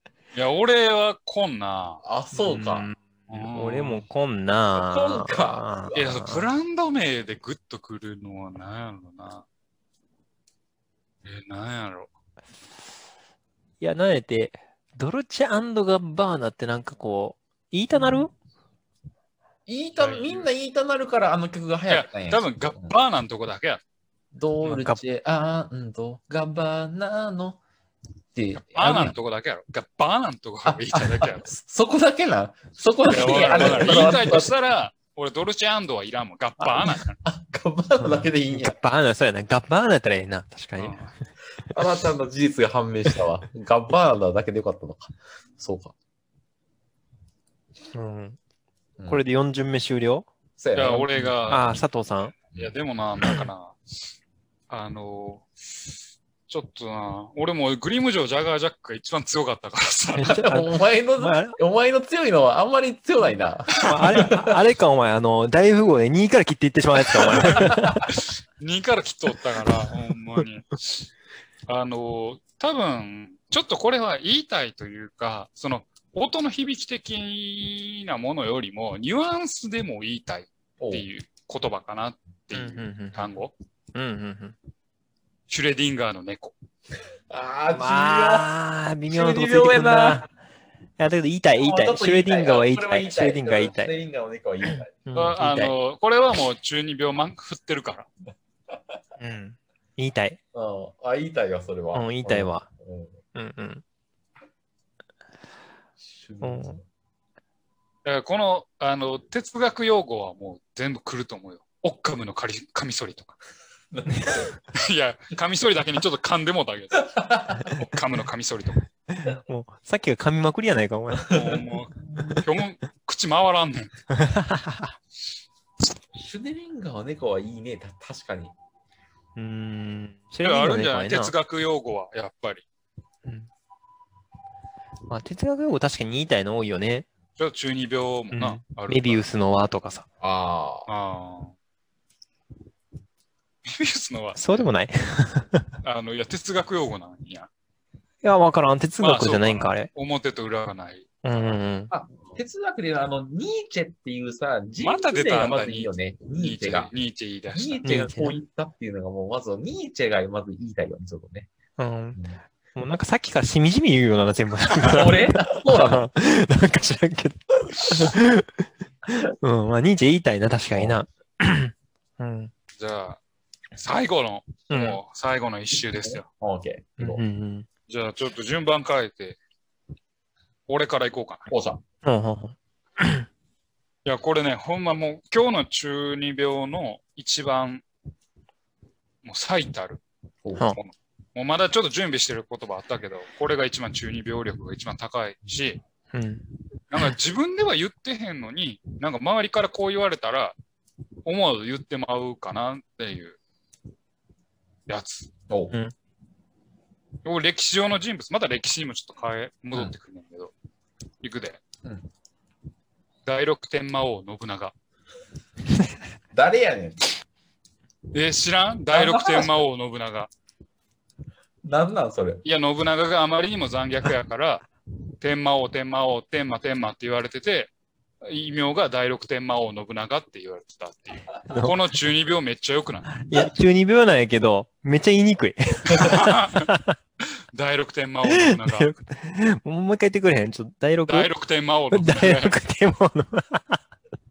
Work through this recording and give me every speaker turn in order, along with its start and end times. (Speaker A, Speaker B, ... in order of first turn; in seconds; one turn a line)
Speaker A: 0.3-2.0
Speaker B: 2.0-2.9
Speaker C: 2.4-6.5
Speaker A: 3.3-4.0
Speaker B: 4.8-6.2
Speaker A: 5.9-9.5
Speaker A: 11.2-12.1
Speaker C: 13.8-18.3
Speaker B: 19.7-22.9
Speaker A: 20.0-20.5
Speaker A: 21.9-23.8
Speaker B: 24.3-27.6
Speaker C: 24.6-25.0
Speaker B: 28.4-29.1
Speaker A: 28.6-31.5
Speaker B: 30.7-34.5
Speaker A: 33.0-37.2
Speaker C: 33.6-34.0
Speaker B: 36.6-38.8
Speaker C: 38.0-41.0
Speaker A: 40.8-41.1
Speaker B: 41.7-46.0
Speaker C: 47.9-48.4
Speaker C: 49.1-50.3
Speaker B: 50.6-51.4
Speaker A: 50.7-51.8
Speaker C: 51.5-52.4
Speaker A: 52.6-53.8
Speaker A: 54.7-55.5
Speaker A: 56.5-60.4
Speaker C: 60.1-61.6
Speaker B: 60.2-64.6
Speaker A: 63.8-64.1
Speaker C: 63.8-68.1
Speaker B: 67.2-68.0
Speaker A: 67.4-71.1
Speaker A: 71.7-83.5
Speaker B: 80.8-81.1
Speaker C: 82.5-83.3
Speaker C: 83.9-84.6
Speaker A: 85.5-86.5
Speaker B: 87.3-88.5
Speaker C: 87.7-90.3
Speaker B: 89.1-90.2
Speaker C: 91.0-93.9
Speaker B: 91.6-95.1
Speaker C: 94.7-95.7
Speaker A: 95.2-98.1
Speaker C: 99.2-100.4
Speaker B: 100.5-103.2
Speaker C: 101.9-102.7
Speaker C: 103.3-103.8
Speaker B: 106.1-106.8
Speaker C: 106.4-106.8
Speaker A: 108.0-113.4
Speaker B: 113.9-114.5
Speaker C: 114.1-114.4
Speaker A: 114.7-117.1
Speaker B: 117.1-117.7
Speaker A: 117.6-118.8
Speaker C: 119.1-121.4
Speaker B: 121.2-121.6
Speaker A: 121.3-123.9
Speaker C: 124.1-124.9
Speaker B: 126.2-128.5
Speaker C: 129.4-131.3
Speaker A: 130.4-132.7
Speaker C: 135.1-137.1
Speaker A: 137.4-139.3
Speaker C: 138.3-140.1
Speaker B: 140.2-140.9
Speaker A: 140.9-141.5
Speaker A: 143.7-144.7
Speaker C: 144.4-145.7
Speaker A: 145.8-147.5
Speaker C: 148.2-149.9
Speaker A: 149.0-151.1
Speaker C: 151.2-151.9
Speaker B: 151.9-156.9
Speaker A: 154.8-157.8
Speaker B: 157.5-161.5
Speaker C: 157.8-158.4
Speaker C: 161.8-162.2
Speaker B: 162.2-162.4
Speaker C: 162.8-172.5
Speaker B: 164.8-166.0
Speaker A: 172.8-173.2
Speaker A: 173.8-176.3
Speaker C: 174.7-175.0
Speaker B: 176.1-177.2
Speaker C: 177.0-177.7
Speaker A: 177.9-179.4
Speaker A: 180.7-181.5
Speaker B: 181.5-181.8
Speaker C: 182.0-183.3
Speaker A: 184.1-187.8
Speaker A: 189.2-190.0
Speaker B: 190.4-190.7
Speaker A: 190.7-195.8
Speaker C: 196.1-196.5
Speaker A: 196.9-200.6
Speaker A: 201.3-203.4
Speaker A: 204.9-205.3
Speaker B: 205.5-205.8
Speaker A: 207.2-210.5
Speaker A: 211.2-211.6
Speaker A: 213.3-214.8
Speaker B: 216.3-217.1
Speaker A: 218.1-220.3
Speaker B: 218.9-219.5
Speaker B: 221.6-222.4
Speaker A: 222.4-224.7
Speaker A: 225.2-227.7
Speaker A: 228.2-233.2
Speaker C: 231.5-231.8
Speaker C: 233.2-237.0
Speaker A: 235.9-236.7
Speaker A: 237.5-238.9
Speaker C: 238.3-241.3
Speaker A: 241.1-242.5
Speaker C: 241.9-243.8